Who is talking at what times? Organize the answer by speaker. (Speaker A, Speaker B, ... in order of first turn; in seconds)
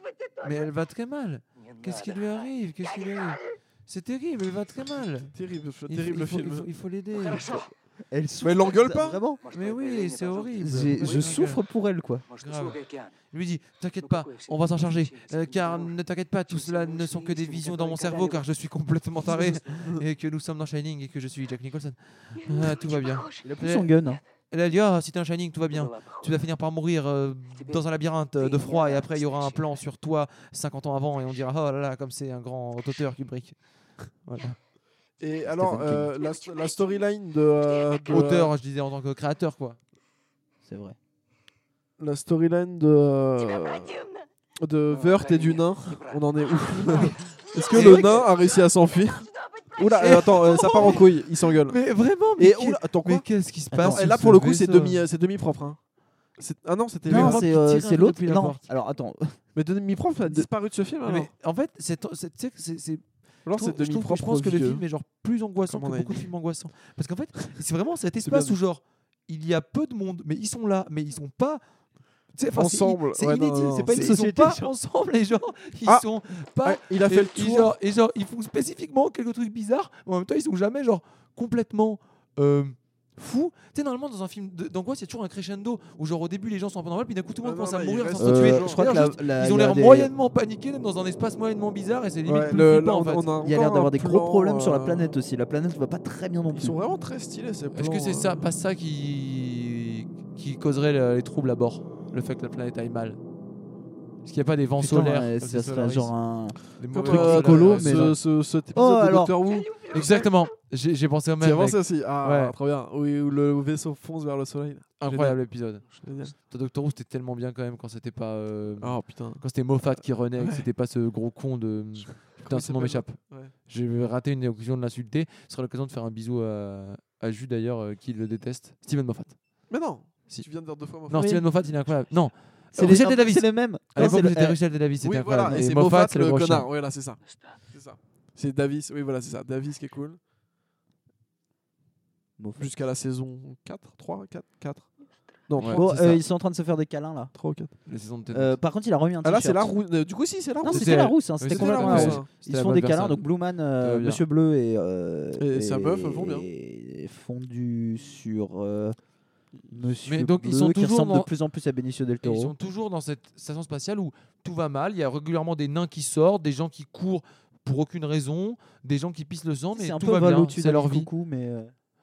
Speaker A: 0.4-5.3, 5.9-7.7, 9.5-11.6, 12.4-23.9, 24.5-33.6, 34.1-34.6, 38.1-39.8, 47.7-48.1, 50.0-51.1, 51.7-55.0, 57.1-58.6, 61.0-71.6, 72.3-93.3, 97.7-103.2, 104.2-106.1, 106.8-108.1, 109.9-112.5, 115.0-129.4, 131.1-136.7, 145.6-145.8, 147.9-148.6, 150.7-153.2, 153.8-154.2, 160.1-161.3, 162.2-171.1
Speaker B: 5.3-6.7, 8.4-9.2, 19.7-20.0, 35.2-38.5, 42.0-44.0, 44.6-53.3, 53.8-55.8, 56.3-57.5, 59.5-61.3, 63.5-64.8, 65.7-66.3, 68.2-68.5, 72.5-74.2, 76.6-77.7, 87.4-89.1, 92.2-95.2, 96.5-98.5, 106.9-110.3, 111.4-116.3, 118.8-120.7, 122.1-123.5, 129.7-131.4, 135.0-140.2, 142.6-144.9, 145.5-146.2, 147.3-147.7, 149.2-152.3, 155.4-156.5
Speaker C: 8.1-9.4, 10.6-12.3, 23.4-24.2, 35.4-36.1, 40.6-41.0, 47.8-48.1, 53.7-54.1, 57.1-59.4, 73.9-74.7, 88.2-90.1, 93.4-96.8, 104.8-108.2, 108.7-109.4, 132.7-134.6, 142.4-142.7, 145.7-147.3, 148.3-149.7, 150.6-159.0, 159.7-162.5, 169.7-171.7